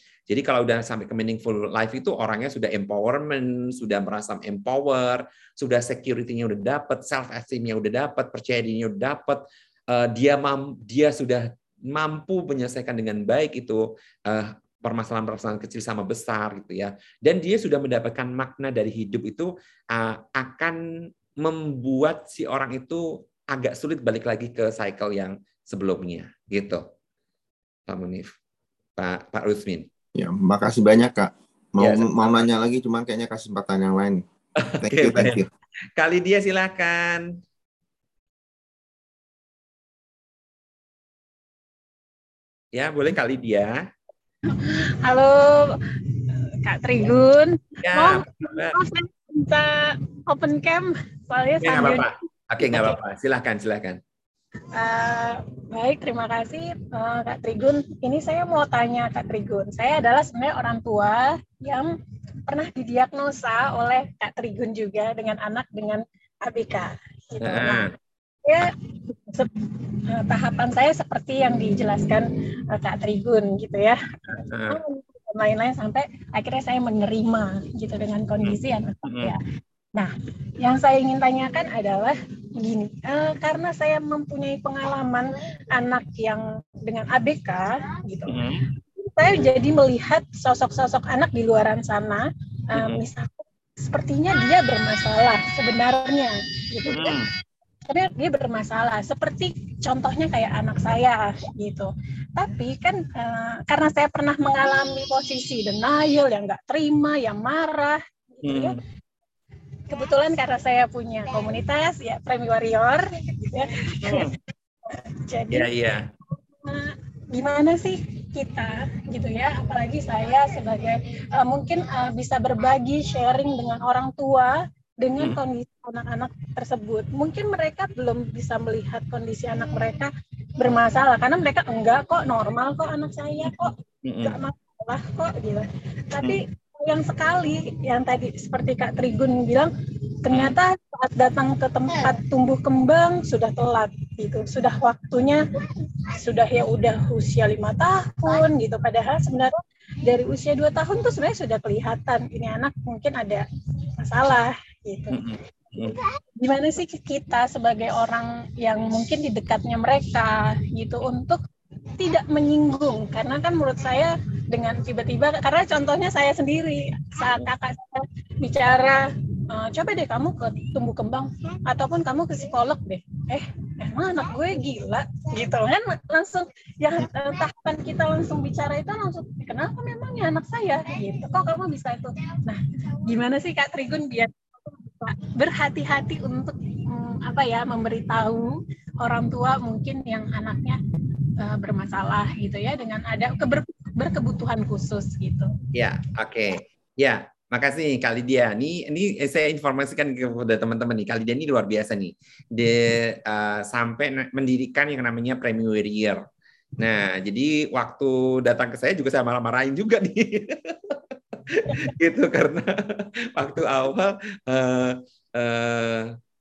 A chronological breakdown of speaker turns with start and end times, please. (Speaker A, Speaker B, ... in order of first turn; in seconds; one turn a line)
Speaker A: 0.3-20.8
Speaker A: 21.4-26.9
Speaker A: 27.9-28.3
Speaker A: 29.0-29.9
Speaker B: 30.1-34.2
Speaker A: 31.8-32.5
Speaker A: 34.6-35.4
Speaker B: 34.8-35.5
Speaker A: 36.0-37.3
Speaker A: 42.7-43.8
Speaker C: 44.5-52.1
Speaker A: 47.8-48.8
Speaker A: 51.6-54.0
Speaker C: 52.6-53.0
Speaker C: 54.7-61.9
Speaker C: 62.5-67.9
Speaker A: 67.4-67.9
Speaker C: 68.5-79.4
Speaker A: 74.5-74.8
Speaker A: 78.4-79.3
Speaker C: 79.9-97.2
Speaker A: 88.3-88.6
Speaker A: 92.7-93.0
Speaker A: 96.8-97.3
Speaker C: 97.9-108.8
Speaker A: 108.4-108.8
Speaker C: 109.9-115.7
Speaker A: 114.0-114.3
Speaker A: 115.5-116.1
Speaker C: 116.6-139.7
Speaker A: 133.4-134.4
Speaker C: 140.2-145.4
Speaker A: 140.3-140.5
Speaker C: 146.1-153.4
Speaker C: 154.0-155.2
Speaker A: 155.1-156.0
Speaker C: 155.8-161.4
Speaker C: 162.0-190.8
Speaker C: 191.4-195.5
Speaker A: 195.7-206.2
Speaker A: 206.8-211.0
Speaker A: 211.5-216.2
Speaker C: 211.7-211.9